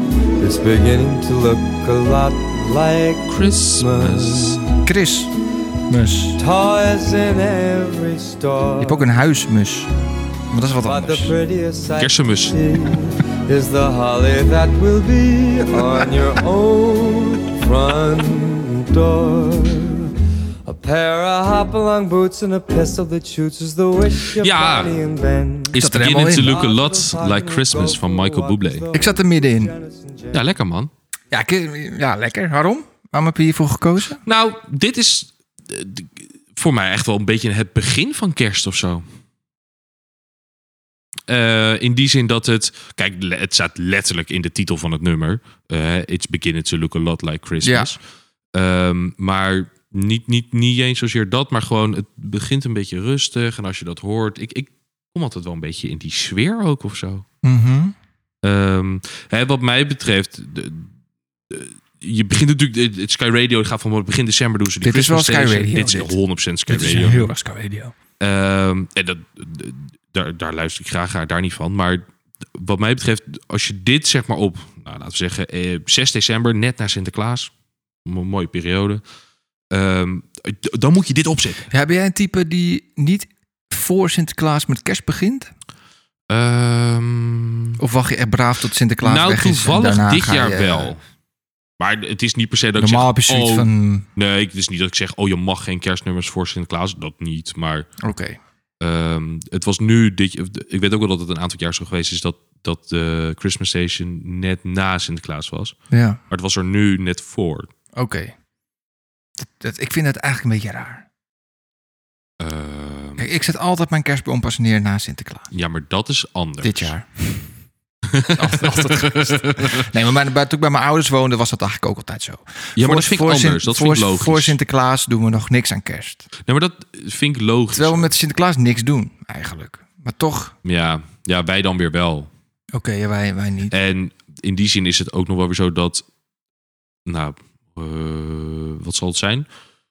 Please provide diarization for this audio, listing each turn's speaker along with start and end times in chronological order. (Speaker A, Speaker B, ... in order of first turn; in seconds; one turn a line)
Speaker A: 0.4-4.7
Speaker B: 3.3-4.6
Speaker C: 4.8-5.3
Speaker C: 5.9-6.4
Speaker A: 6.4-9.0
Speaker C: 8.8-9.9
Speaker C: 10.5-11.3
Speaker A: 10.8-30.4
Speaker B: 12.0-12.6
Speaker B: 24.4-24.9
Speaker B: 25.7-28.9
Speaker C: 25.8-26.6
Speaker C: 28.9-29.7
Speaker B: 30.3-30.9
Speaker C: 31.3-34.2
Speaker B: 34.2-39.0
Speaker B: 41.3-48.0
Speaker C: 47.6-47.9
Speaker B: 48.5-57.2
Speaker C: 57.4-57.9
Speaker B: 58.4-60.9
Speaker B: 61.5-67.3
Speaker C: 64.8-66.2
Speaker C: 66.7-67.9
Speaker B: 68.2-77.5
Speaker B: 78.0-79.0
Speaker B: 79.7-81.7
Speaker C: 81.7-85.5
Speaker B: 86.3-87.8
Speaker C: 87.8-90.9
Speaker B: 89.0-91.0
Speaker B: 91.8-97.9
Speaker C: 92.8-94.1
Speaker C: 98.0-98.4
Speaker B: 98.8-105.8
Speaker C: 105.9-106.2
Speaker B: 106.3-107.7
Speaker C: 107.9-108.3
Speaker C: 109.4-111.1
Speaker B: 112.4-113.3
Speaker C: 113.2-115.5
Speaker B: 115.5-116.9
Speaker C: 116.6-117.5
Speaker B: 118.1-119.9
Speaker C: 118.3-126.3
Speaker B: 122.8-124.6
Speaker B: 126.4-128.1
Speaker C: 127.7-130.6
Speaker B: 130.7-132.3
Speaker C: 132.7-133.7
Speaker B: 133.7-136.1
Speaker B: 137.1-139.4